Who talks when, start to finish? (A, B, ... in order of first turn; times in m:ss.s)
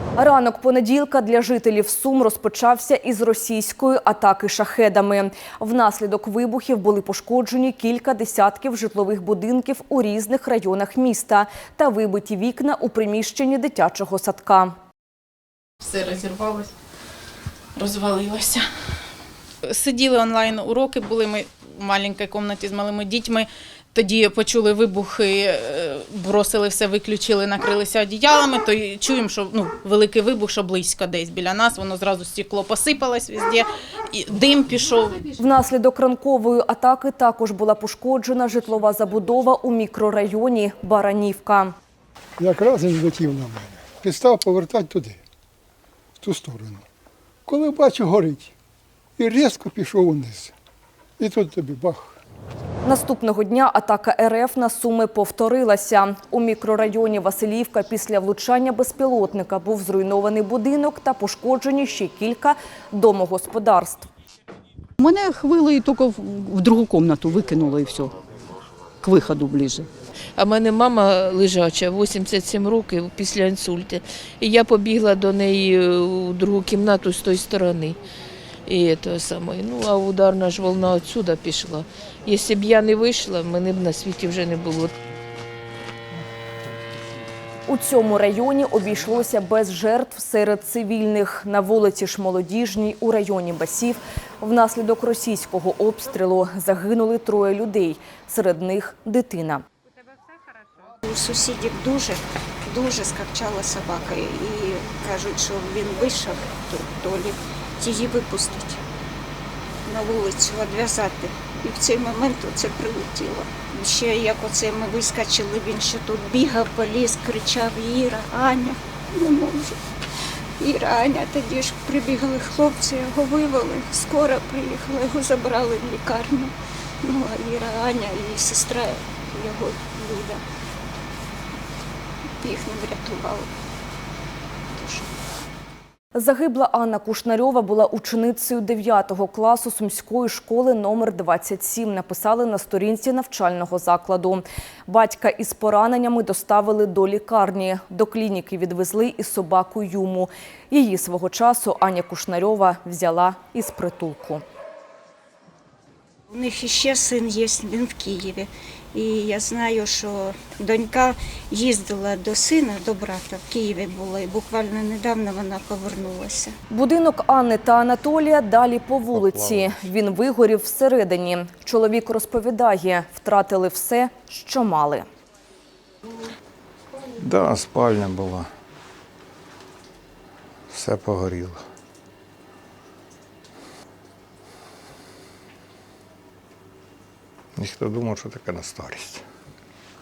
0:00.2-0:14.8 A
0:15.8-0:16.7 B
0:17.8-0:18.7 B
0:19.7-0:35.3 B
0:35.4-0:41.8 A
0:42.4-0:45.2 C
0:46.2-0:46.8 C
0:47.5-0:48.5 C
0:49.2-0:50.5 C
0:51.2-0:52.2 C
0:52.8-1:04.1 A
1:05.0-1:08.1 D
1:09.0-1:09.9 D
1:10.4-1:18.0 E
1:18.7-1:24.9 E
1:27.7-1:39.6 A
1:41.0-1:48.8 F
1:49.9-1:59.8 F
2:00.6-2:10.4 F
2:12.4-2:13.5 F
2:14.7-2:15.2 F
2:16.2-2:34.4 A
2:36.3-2:46.6 F
2:46.7-2:55.1 A
2:49.1-2:49.6 G
2:57.2-2:58.5 G
3:00.7-3:01.6 G
3:07.6-3:09.2 G